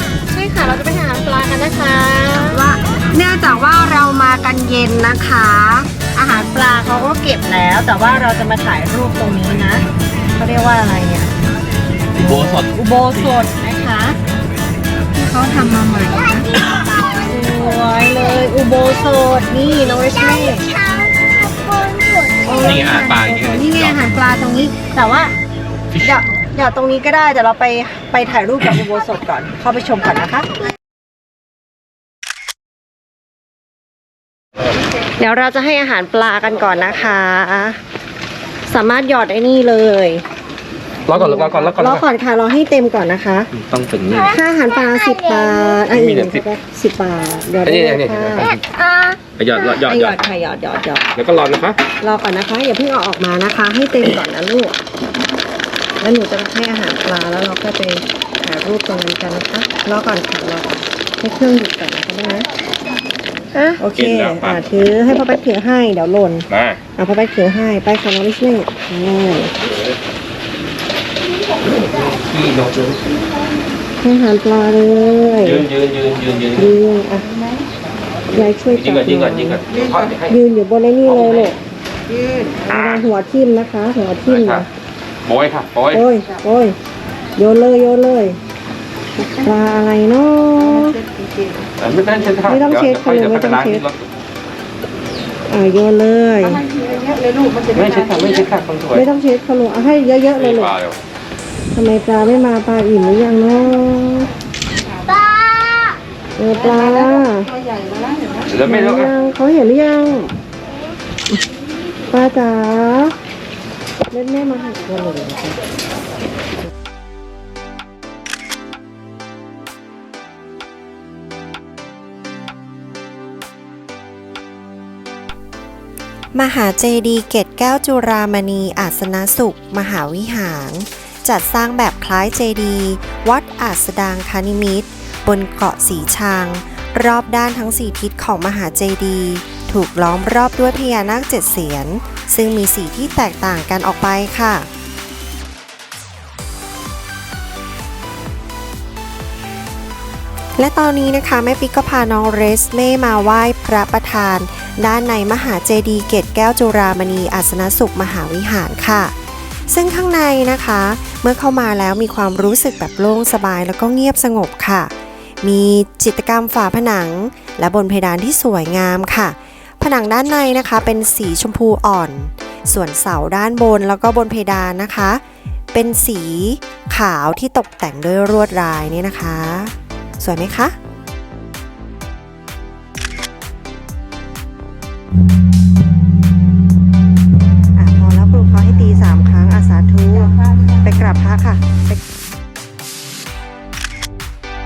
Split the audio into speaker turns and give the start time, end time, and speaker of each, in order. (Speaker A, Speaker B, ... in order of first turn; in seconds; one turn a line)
Speaker A: 0.3-9.8
Speaker A: 10.4-11.3
Speaker A: 12.2-14.2
Speaker B: 12.2-12.7
Speaker A: 15.2-16.5
Speaker C: 16.1-18.5
Speaker A: 17.2-20.7
Speaker C: 20.0-22.8
Speaker A: 22.4-25.3
Speaker B: 22.6-24.0
Speaker A: 26.0-30.5
Speaker A: 35.2-37.8
Speaker A: 38.7-40.2
Speaker B: 41.1-42.0
Speaker A: 41.1-43.5
Speaker B: 43.5-44.4
Speaker C: 44.1-45.8
Speaker A: 44.3-48.5
Speaker B: 45.9-46.5
Speaker B: 47.6-48.6
Speaker C: 48.5-49.2
Speaker B: 49.4-50.2
Speaker A: 49.8-51.1
Speaker B: 51.2-51.8
Speaker A: 52.0-54.8
Speaker A: 56.0-62.5
Speaker A: 63.7-69.5
Speaker B: 63.8-64.6
Speaker B: 66.5-66.8
Speaker B: 71.8-73.0
Speaker A: 74.0-75.7
Speaker B: 75.4-76.7
Speaker A: 76.6-77.3
Speaker A: 78.3-79.6
Speaker B: 78.7-80.4
Speaker A: 80.3-81.6
Speaker B: 81.1-81.5
Speaker B: 82.7-83.0
Speaker A: 82.7-84.7
Speaker B: 84.3-84.6
Speaker B: 85.2-86.1
Speaker A: 85.9-86.8
Speaker A: 87.4-88.4
Speaker A: 89.4-91.0
Speaker D: 91.1-91.6
Speaker B: 91.8-94.1
Speaker A: 92.5-93.9
Speaker A: 95.5-96.6
Speaker D: 96.8-97.7
Speaker B: 97.7-99.1
Speaker A: 98.9-100.8
Speaker B: 100.4-101.0
Speaker A: 101.7-104.3
Speaker C: 105.0-106.0
Speaker A: 106.4-107.5
Speaker D: 107.7-108.4
Speaker B: 108.5-109.1
Speaker A: 108.6-110.3
Speaker A: 112.1-113.2
Speaker A: 114.1-115.6
Speaker E: 126.3-144.7
Speaker E: 150.6-159.1
Speaker E: 159.7-175.2
Speaker E: 175.7-180.8
Speaker A: 187.8-192.0